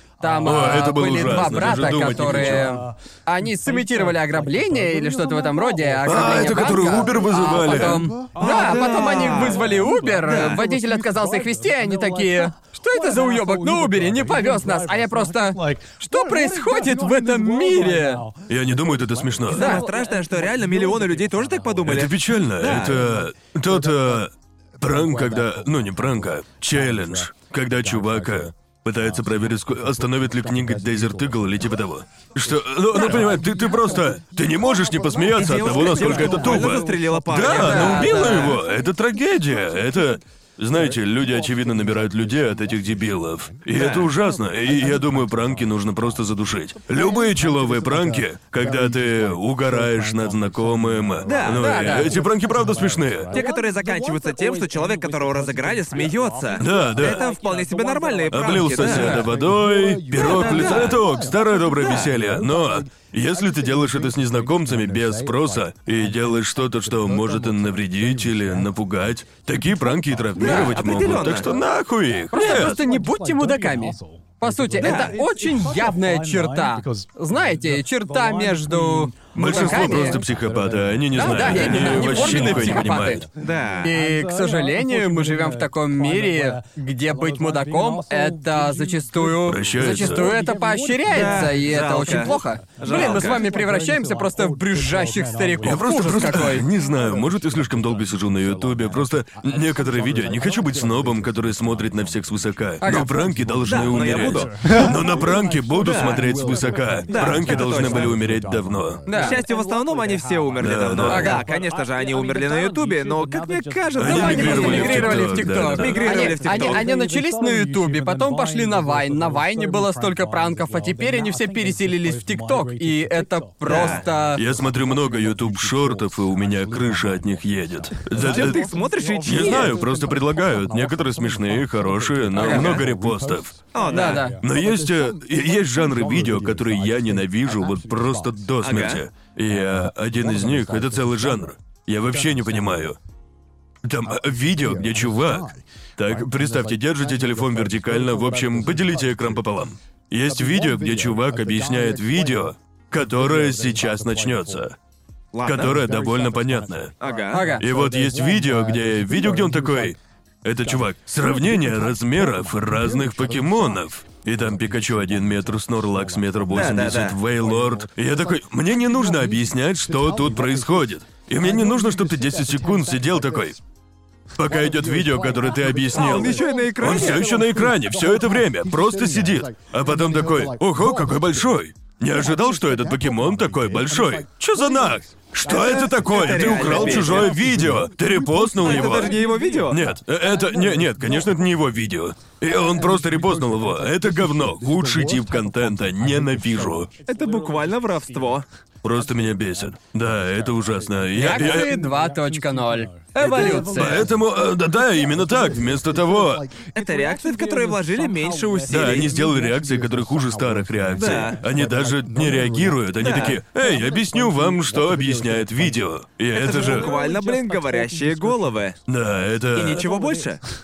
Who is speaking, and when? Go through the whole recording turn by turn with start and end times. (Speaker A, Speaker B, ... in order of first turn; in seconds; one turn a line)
Speaker A: 0.2-18.3
Speaker B: 0.4-2.8
Speaker B: 6.1-8.1
Speaker C: 8.4-9.7
Speaker C: 10.2-10.6
Speaker B: 18.5-19.7
Speaker C: 19.5-23.0
Speaker A: 19.5-19.9
Speaker B: 21.8-53.4
Speaker C: 35.4-38.6
Speaker A: 36.3-36.8
Speaker A: 37.4-38.6
Speaker C: 43.7-44.1
Speaker C: 51.3-51.6
Speaker A: 51.5-52.2
Speaker C: 53.3-59.3
Speaker B: 56.6-57.3
Speaker B: 58.3-72.8
Speaker A: 58.9-59.2
Speaker C: 60.1-61.0
Speaker C: 61.8-62.1
Speaker C: 70.4-71.5
Speaker A: 72.3-80.2
Speaker C: 74.8-75.2
Speaker B: 79.3-83.2
Speaker A: 81.1-83.3
Speaker C: 81.5-82.0
Speaker C: 83.4-83.9
Speaker A: 83.8-96.7
Speaker B: 89.5-90.3
Speaker C: 91.1-93.4
Speaker B: 95.6-109.0
Speaker A: 102.8-103.1
Speaker C: 103.7-104.5
Speaker C: 105.8-106.3
Speaker C: 107.1-108.2
Speaker A: 109.1-109.4
Speaker C: 109.1-116.9
Speaker B: 110.6-111.4
Speaker A: 111.1-111.5
Speaker B: 114.0-116.1
Speaker A: 114.0-124.4
Speaker C: 123.6-124.0
Speaker B: 124.3-128.7
Speaker C: 128.2-129.8
Speaker B: 129.2-133.6
Speaker A: 132.4-132.7
Speaker C: 132.4-132.8
Speaker C: 133.7-134.3
Speaker A: 133.9-134.4
Speaker B: 134.4-143.0
Speaker C: 138.6-139.0
Speaker B: 143.8-154.8
Speaker C: 155.3-155.8
Speaker B: 155.4-156.9
Speaker C: 157.0-157.5
Speaker A: 157.3-157.7
Speaker B: 157.6-173.6
Speaker C: 166.5-167.2
Speaker B: 174.3-196.9
Speaker C: 175.9-177.3
Speaker C: 185.5-187.3
Speaker C: 188.6-189.8
Speaker C: 197.1-198.4
Speaker B: 198.8-201.8
Speaker A: 201.2-204.1
Speaker C: 203.2-204.0
Speaker B: 203.6-206.5
Speaker C: 206.7-209.2
Speaker B: 208.7-217.0
Speaker C: 211.0-211.4
Speaker C: 213.0-213.4
Speaker C: 216.3-218.8
Speaker B: 218.9-219.9
Speaker C: 219.6-220.4